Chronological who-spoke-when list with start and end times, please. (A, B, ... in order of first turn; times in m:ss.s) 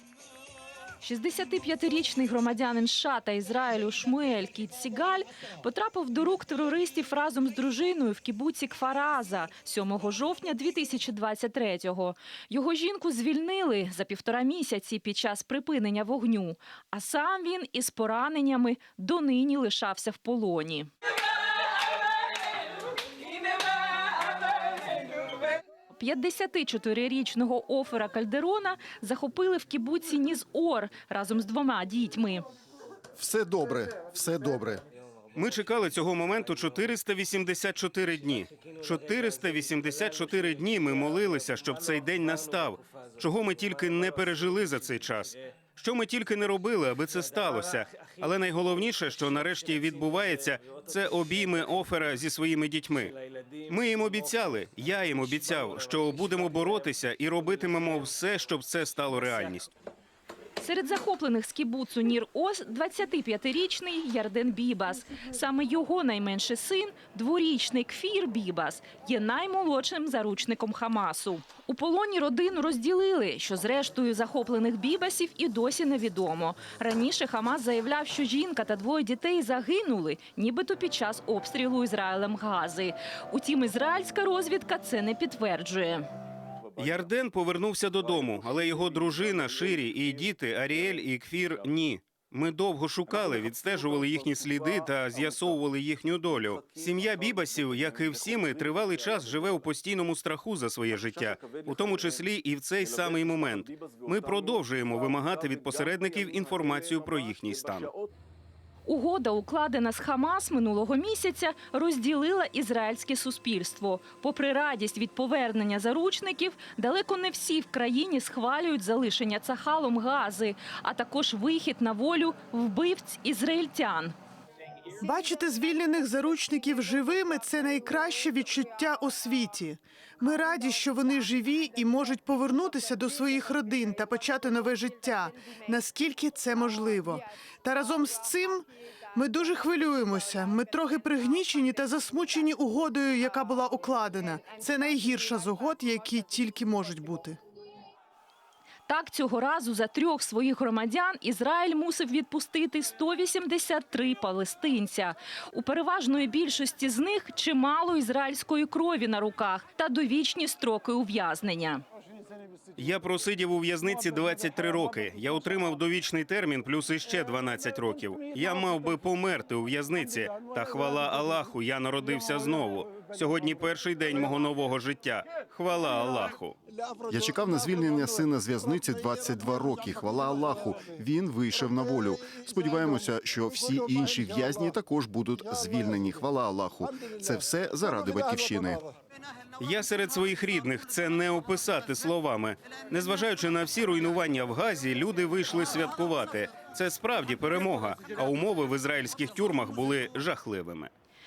0:01.0-0:20.9 A
0:26.0-0:32.4 A
0:33.2-0:34.8 B
0:35.3-0:53.1 C
0:53.7-0:59.7 C
1:00.6-1:26.0 A
1:26.8-1:47.9 C
1:48.8-2:04.2 A
2:05.0-2:27.4 D
2:28.9-2:41.8 A
2:42.8-2:56.6 C
2:57.1-3:08.8 B
3:09.6-3:20.9 C